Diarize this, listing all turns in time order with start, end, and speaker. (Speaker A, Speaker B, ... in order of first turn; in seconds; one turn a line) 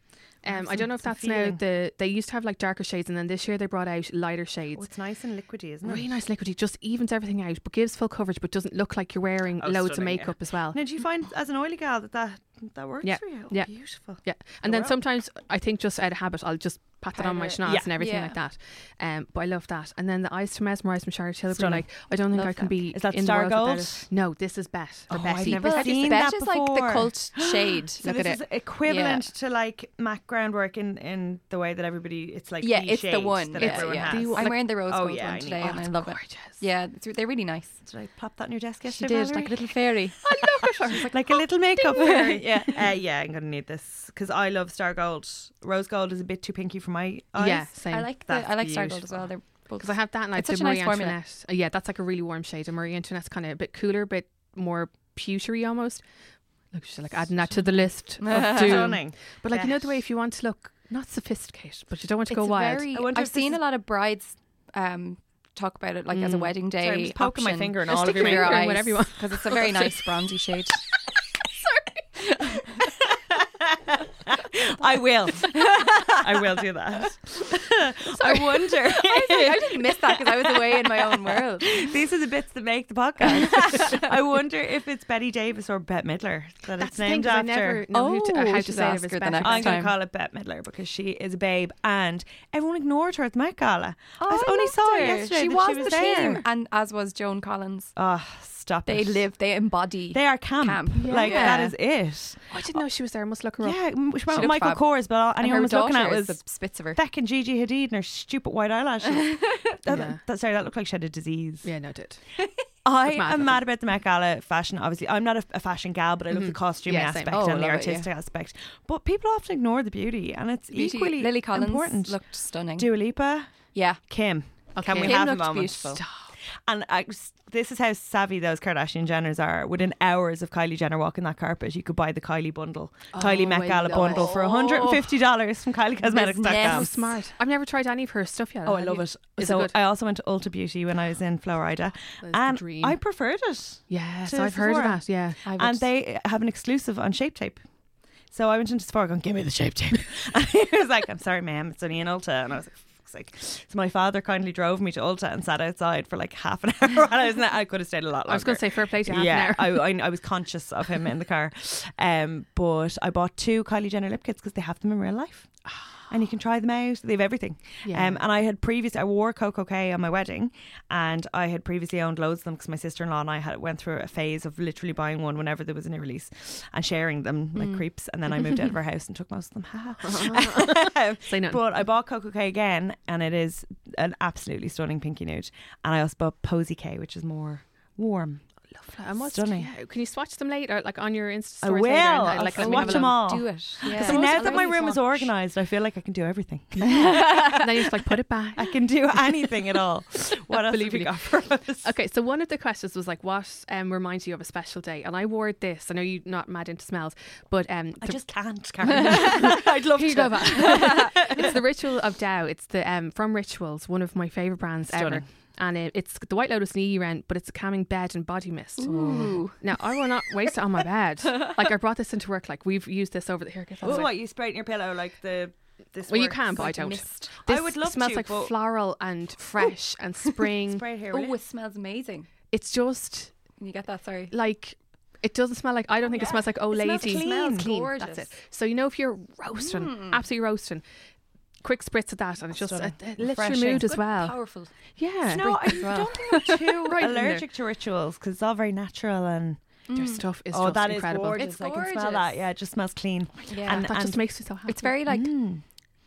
Speaker A: 0.4-4.8
Speaker B: 0.5-1.6
Speaker B: 4.7-6.1
Speaker A: 5.8-10.8
Speaker B: 9.6-14.9
Speaker A: 13.0-26.2
Speaker C: 17.5-18.4
Speaker B: 17.6-17.9
Speaker B: 21.5-24.1
Speaker B: 25.1-35.8
Speaker C: 25.4-28.1
Speaker A: 28.0-28.4
Speaker C: 28.8-29.2
Speaker C: 32.6-37.8
Speaker A: 33.5-34.7
Speaker A: 35.6-36.6
Speaker B: 37.8-39.8
Speaker C: 38.9-40.6
Speaker A: 40.2-42.4
Speaker B: 40.4-49.1
Speaker C: 41.8-42.8
Speaker A: 47.4-48.1
Speaker C: 47.9-51.2
Speaker A: 49.8-56.0
Speaker A: 56.7-62.9
Speaker C: 58.2-59.0
Speaker B: 58.3-59.9
Speaker C: 62.3-70.8
Speaker B: 62.9-63.6
Speaker A: 66.1-66.5
Speaker B: 66.7-68.7
Speaker A: 67.9-70.1
Speaker C: 72.4-72.6
Speaker B: 73.0-87.8
Speaker C: 75.5-76.2
Speaker C: 78.8-81.9
Speaker C: 83.3-84.1
Speaker A: 86.8-89.8
Speaker C: 87.9-90.0
Speaker B: 89.4-96.4
Speaker C: 94.2-97.9
Speaker B: 98.0-99.2
Speaker C: 98.8-101.7
Speaker B: 100.1-102.8
Speaker A: 101.0-101.8
Speaker A: 102.5-103.8
Speaker B: 103.6-106.4
Speaker C: 104.3-107.0
Speaker B: 106.9-111.7
Speaker C: 109.2-109.5
Speaker A: 109.9-110.2
Speaker A: 111.6-112.2
Speaker B: 112.8-122.2
Speaker A: 113.0-113.6
Speaker A: 116.3-117.5
Speaker C: 117.3-118.1
Speaker C: 120.7-122.9
Speaker B: 122.8-123.5
Speaker C: 123.7-124.0
Speaker B: 124.1-126.0
Speaker A: 124.7-125.2
Speaker C: 124.8-126.0
Speaker A: 126.0-126.3
Speaker B: 126.7-136.9
Speaker A: 133.1-134.4
Speaker C: 133.9-135.1
Speaker C: 136.1-137.1
Speaker A: 136.5-139.7
Speaker B: 138.6-147.6
Speaker A: 142.2-143.0
Speaker A: 143.9-145.4
Speaker C: 145.4-145.8
Speaker B: 148.3-165.5
Speaker A: 158.3-159.8
Speaker B: 166.1-188.4
Speaker A: 167.8-168.2
Speaker C: 177.5-178.7
Speaker A: 180.0-181.6
Speaker A: 188.7-195.2
Speaker B: 189.2-189.7
Speaker B: 191.6-197.7
Speaker C: 192.6-195.1
Speaker A: 196.7-198.7
Speaker C: 196.9-197.8
Speaker B: 198.6-201.9
Speaker A: 200.7-201.3
Speaker A: 201.8-208.2
Speaker B: 208.0-211.6
Speaker A: 208.8-224.1
Speaker C: 210.6-211.1
Speaker B: 214.9-215.2
Speaker C: 218.8-219.6
Speaker B: 218.9-219.4
Speaker B: 223.8-228.5
Speaker A: 226.1-230.8
Speaker C: 226.6-227.3
Speaker B: 230.7-231.4
Speaker C: 231.1-232.3
Speaker A: 232.5-233.3
Speaker C: 233.6-234.3
Speaker A: 234.3-240.8
Speaker C: 236.1-236.4
Speaker B: 236.7-237.7
Speaker C: 237.0-238.3
Speaker C: 239.6-240.2
Speaker A: 241.6-244.4
Speaker B: 242.5-244.0
Speaker C: 243.9-244.7
Speaker A: 245.0-247.4
Speaker B: 245.3-249.6
Speaker C: 245.4-246.1
Speaker C: 249.9-250.2
Speaker A: 249.9-251.4
Speaker B: 250.5-254.2
Speaker C: 251.2-252.3
Speaker C: 253.5-253.9
Speaker A: 253.7-255.0
Speaker C: 254.7-255.3
Speaker B: 255.1-255.6